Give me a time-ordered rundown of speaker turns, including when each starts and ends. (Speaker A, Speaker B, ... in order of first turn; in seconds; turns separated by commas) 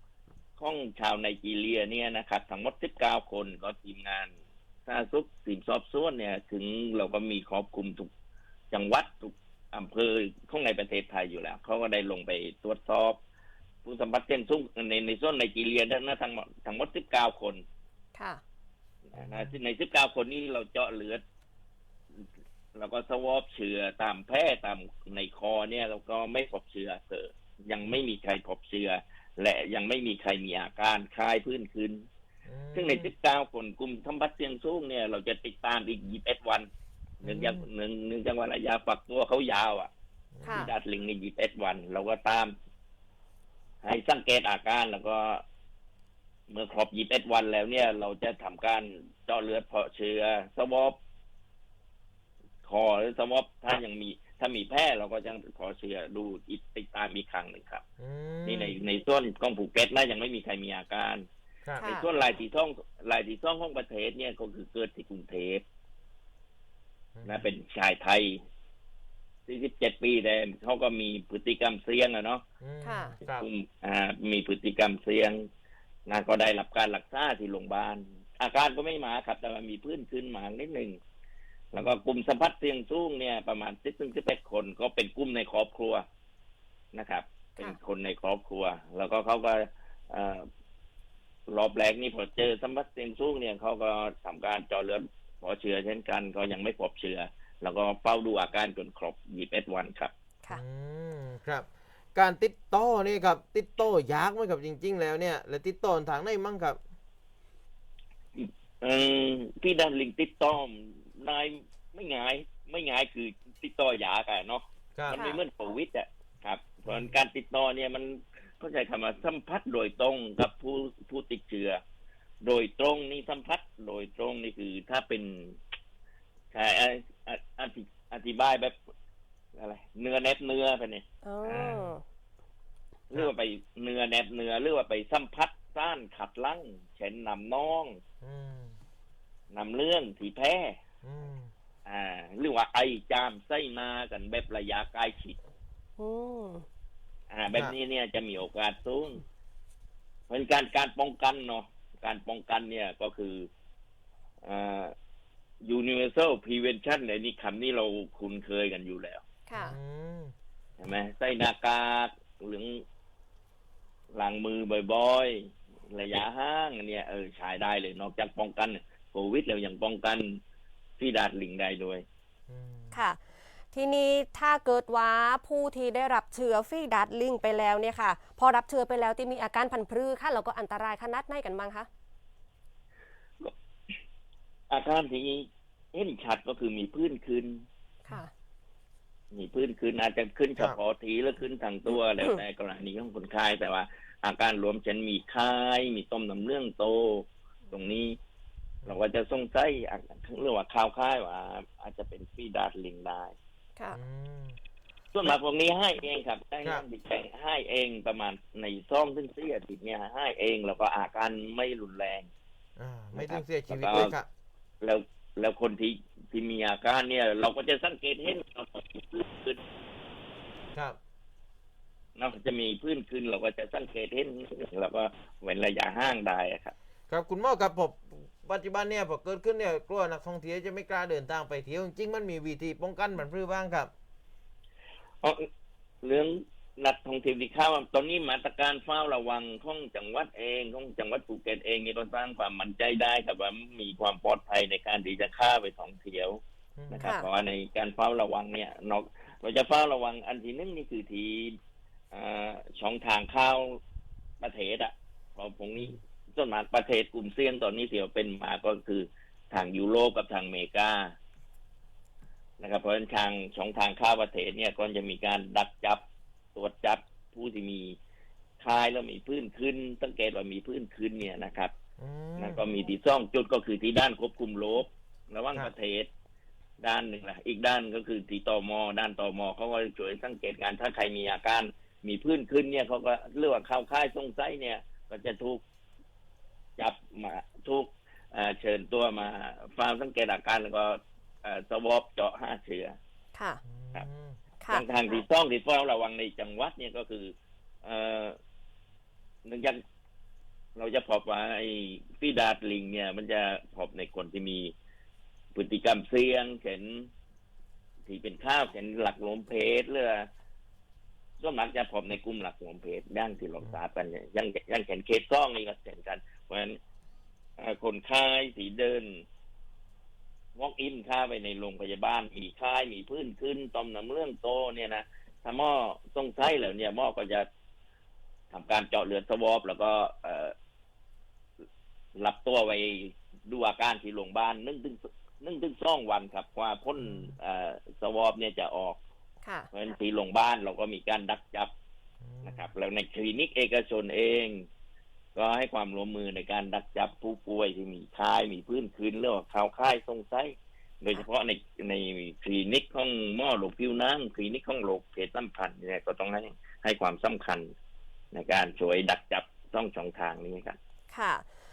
Speaker A: 0.6-4.3, Speaker A: 4.9-8.1, Speaker A: 8.7-13.2, Speaker A: 13.8-17.6, Speaker B: 18.2-18.4, Speaker A: 19.1-21.2, Speaker C: 19.2-19.5, Speaker A: 22.1-32.0, Speaker C: 32.5-33.1, Speaker A: 32.7-36.7, Speaker A: 37.2-39.9, Speaker C: 37.2-37.7, Speaker C: 40.3-40.7, Speaker B: 40.4-40.7, Speaker A: 40.5-42.5, Speaker A: 43.8-45.4, Speaker A: 46.5-51.0, Speaker A: 52.6-57.8, Speaker C: 58.0-58.8, Speaker A: 58.5-61.3, Speaker B: 61.8-62.1, Speaker A: 61.8-65.7, Speaker C: 67.2-67.5, Speaker A: 67.2-68.4, Speaker A: 69.5-72.4, Speaker C: 72.6-73.5, Speaker B: 72.8-73.2, Speaker A: 73.2-75.5, Speaker A: 76.1-81.0, Speaker A: 81.7-86.0, Speaker A: 86.9-90.5, Speaker A: 91.5-100.1, Speaker C: 100.5-106.8, Speaker A: 108.3-121.8, Speaker B: 115.1-115.4, Speaker C: 116.9-117.2, Speaker A: 122.4-125.6, Speaker A: 126.5-128.8, Speaker A: 129.6-131.8, Speaker B: 131.2-132.0, Speaker A: 133.1-138.0, Speaker C: 138.2-138.8, Speaker A: 139.5-140.8, Speaker C: 141.0-141.5, Speaker A: 141.9-145.4, Speaker B: 146.0-146.7, Speaker A: 147.3-149.2, Speaker A: 150.3-153.5, Speaker A: 154.4-154.9, Speaker A: 155.6-159.2, Speaker B: 159.5-159.8, Speaker C: 159.6-160.3, Speaker A: 160.8-162.8, Speaker A: 164.1-170.4, Speaker A: 171.0-172.1, Speaker C: 172.5-173.0, Speaker B: 172.9-173.2, Speaker B: 173.7-181.9, Speaker A: 184.7-187.7, Speaker A: 189.3-198.2, Speaker A: 198.8-203.3, Speaker C: 203.9-204.6, Speaker A: 205.1-212.3, Speaker C: 212.8-214.3, Speaker A: 213.1-214.2, Speaker A: 214.8-219.6, Speaker A: 222.2-226.7, Speaker C: 227.1-233.9, Speaker A: 235.2-235.5, Speaker A: 236.0-251.6, Speaker C: 246.8-247.1, Speaker B: 247.0-247.3, Speaker A: 252.1-253.8, Speaker A: 254.4-261.1, Speaker A: 262.6-266.0, Speaker A: 266.6-268.0, Speaker A: 268.6-271.7, Speaker C: 272.0-272.6, Speaker A: 272.4-276.1, Speaker A: 276.8-285.6, Speaker A: 286.8-293.0, Speaker B: 293.4-293.6, Speaker C: 293.6-294.4, Speaker A: 294.7-298.4, Speaker A: 299.4-299.8, Speaker A: 300.8-304.7, Speaker A: 305.6-307.1, Speaker A: 308.1-310.3, Speaker A: 311.4-316.8, Speaker A: 317.6-319.2, Speaker A: 320.6-327.5, Speaker A: 328.5-330.5, Speaker A: 332.2-339.0, Speaker C: 337.0-337.4, Speaker B: 339.4-339.7, Speaker A: 339.7-341.7, Speaker C: 342.2-342.7, Speaker A: 342.4-344.7, Speaker A: 345.4-357.7, Speaker A: 358.3-360.8, Speaker B: 361.1-361.4